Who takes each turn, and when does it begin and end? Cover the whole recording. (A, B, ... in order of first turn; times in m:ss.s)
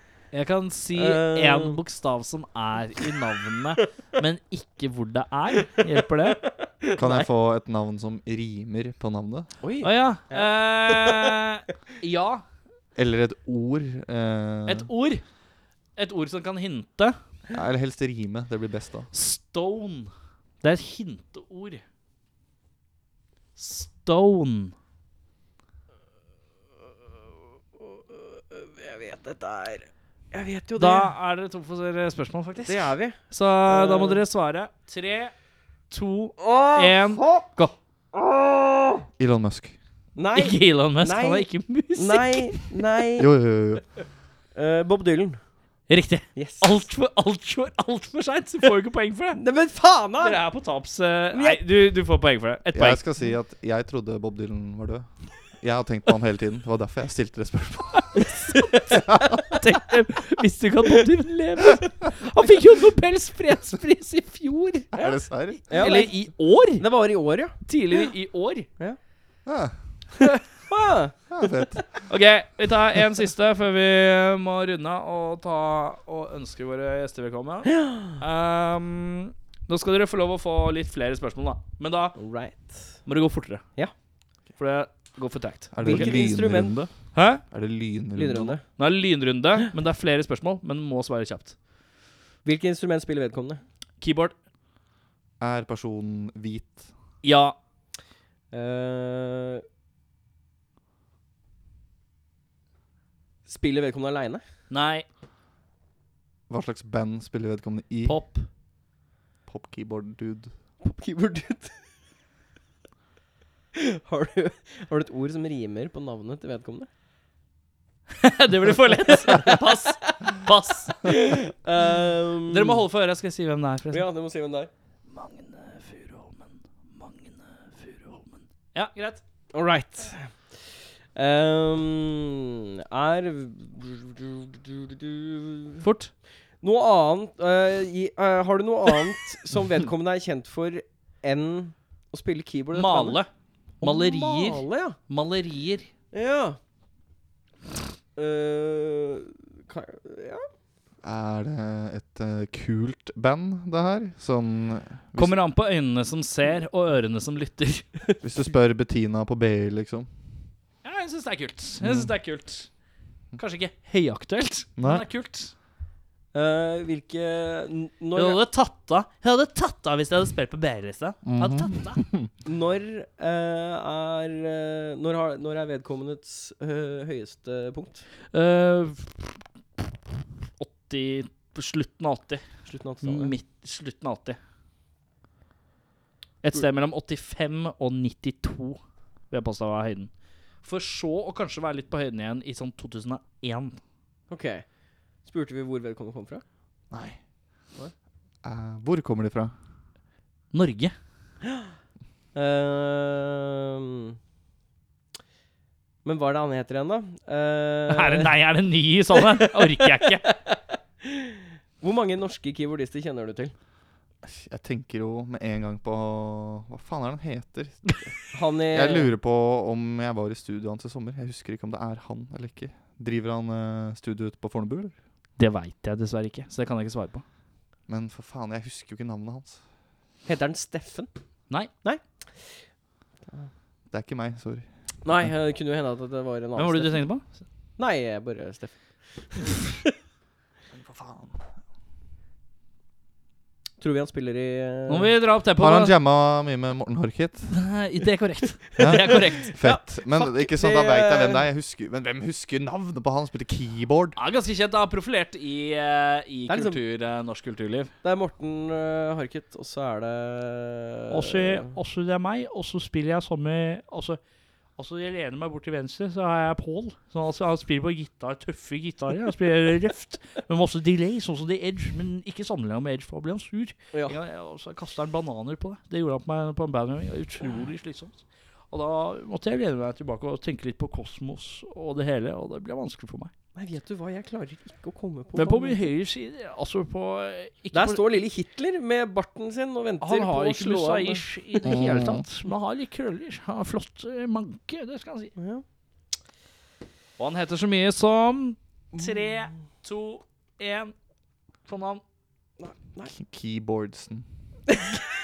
0:00.3-0:06.4 A
0:00.9-0:01.8 B
0:06.6-0:07.3 B
0:07.0-0:09.5 C
0:09.6-0:11.3 B
0:09.8-0:12.4 A
0:13.0-0:14.9 C
0:14.7-0:15.2 A
0:16.0-0:17.2 A
0:17.5-0:19.1 C
0:19.1-0:20.1 A
0:20.6-0:21.8 A
0:23.6-0:24.7 A
0:27.8-0:31.1 B
0:30.8-0:35.3 A
0:32.6-0:34.2 B
0:35.9-0:37.7 A
0:36.4-0:37.5 B
0:38.1-0:39.1 B
0:39.2-0:39.8 C
0:40.2-0:43.3 B
0:40.4-0:42.7 A
0:43.2-0:43.9 C
0:44.6-0:45.4 B
0:45.9-0:49.4 A
0:46.4-0:46.7 B
0:49.4-0:50.4 B
0:50.2-0:53.0 A
0:51.3-0:51.6 B
0:52.7-0:58.2 C
0:58.2-0:58.8 B
0:58.2-0:59.0 A
0:59.5-1:04.9 A
1:04.9-1:05.6 C
1:05.0-1:07.6 B
1:05.7-1:06.8 A
1:07.6-1:08.7 A
1:09.4-1:09.8 C
1:10.7-1:11.2 B
1:11.3-1:12.0 C
1:12.1-1:22.2 A
1:17.7-1:18.2 B
1:22.2-1:23.0 B
1:23.0-1:23.6 A
1:24.6-1:26.2 A
1:25.7-1:28.6 C
1:25.8-1:26.8 B
1:27.1-1:27.4 A
1:28.2-1:28.6 B
1:28.8-1:31.6 A
1:32.4-1:33.6 B
1:34.0-1:34.3 A
1:35.4-1:36.9 C
1:37.2-1:37.6 A
1:38.5-1:39.6 B
1:43.5-1:44.4 B
1:44.7-1:45.0 A
1:46.5-1:48.2 C
1:48.1-1:48.5 A
1:49.5-1:50.5 C
1:50.8-1:51.8 B
1:53.8-1:56.9 B
1:58.2-2:01.2 A
1:59.1-2:00.4 B
2:01.0-2:02.8 B
2:02.5-2:04.1 A
2:03.9-2:04.7 B
2:05.1-2:09.2 A
2:09.5-2:10.6 B
2:11.2-2:15.8 B
2:15.8-2:16.1 A
2:16.6-2:23.2 B
2:22.7-2:23.3 A
2:23.8-2:25.0 B
2:23.8-2:25.9 A
2:26.1-2:26.6 B
2:28.2-2:30.5 B
2:31.0-2:35.4 C
2:35.2-2:37.9 A
2:38.2-2:40.1 C
2:40.8-2:42.7 A
2:41.8-2:42.1 C
2:43.4-2:45.5 A
2:44.8-2:45.0 C
2:46.3-2:48.4 B
2:48.2-2:52.1 A
2:51.3-2:52.3 C
2:52.4-2:58.1 B
2:58.3-2:59.4 A
3:00.6-3:02.5 A
3:02.7-3:03.3 B
3:03.0-3:04.4 A
3:06.4-3:08.8 A
3:09.3-3:10.1 A
3:10.6-3:13.8 A
3:14.3-3:14.7 B
3:15.2-3:16.4 B
3:16.9-3:17.2 C
3:18.4-3:19.5 C
3:20.5-3:20.9 A
3:21.4-3:21.7 B
3:22.4-3:24.2 B
3:26.0-3:28.3 B
3:27.9-3:30.3 A
3:29.2-3:33.5 B
3:34.2-3:38.0 C
3:38.3-3:39.1 B
3:38.7-3:44.9 C
3:45.4-3:47.2 A
3:47.9-3:49.6 C
3:50.2-3:51.1 B
3:51.7-3:52.7 B
3:53.9-3:54.7 C
3:55.0-3:57.1 B
3:56.6-3:57.4 A
3:57.8-3:59.6 B
4:00.7-4:01.5 C
4:03.8-4:05.1 B
4:04.9-4:05.9 A
4:05.6-4:07.6 C
4:07.5-4:09.5 A
4:08.8-4:14.2 C
4:09.4-4:11.4 B
4:14.2-4:17.9 A
4:16.5-4:16.8 B
4:18.0-4:21.7 B
4:21.1-4:24.2 A
4:24.8-4:38.2 A
4:33.9-4:34.2 B
4:38.7-4:43.3 A
4:43.6-4:45.8 B
4:45.4-4:48.0 A
4:47.7-4:51.9 B
4:50.0-4:55.3 A
4:51.6-4:52.2 C
4:55.4-4:55.6 B
4:57.2-5:00.9 A
5:01.7-5:02.0 A
5:02.6-5:03.1 B
5:03.1-5:04.3 C
5:04.7-5:05.0 B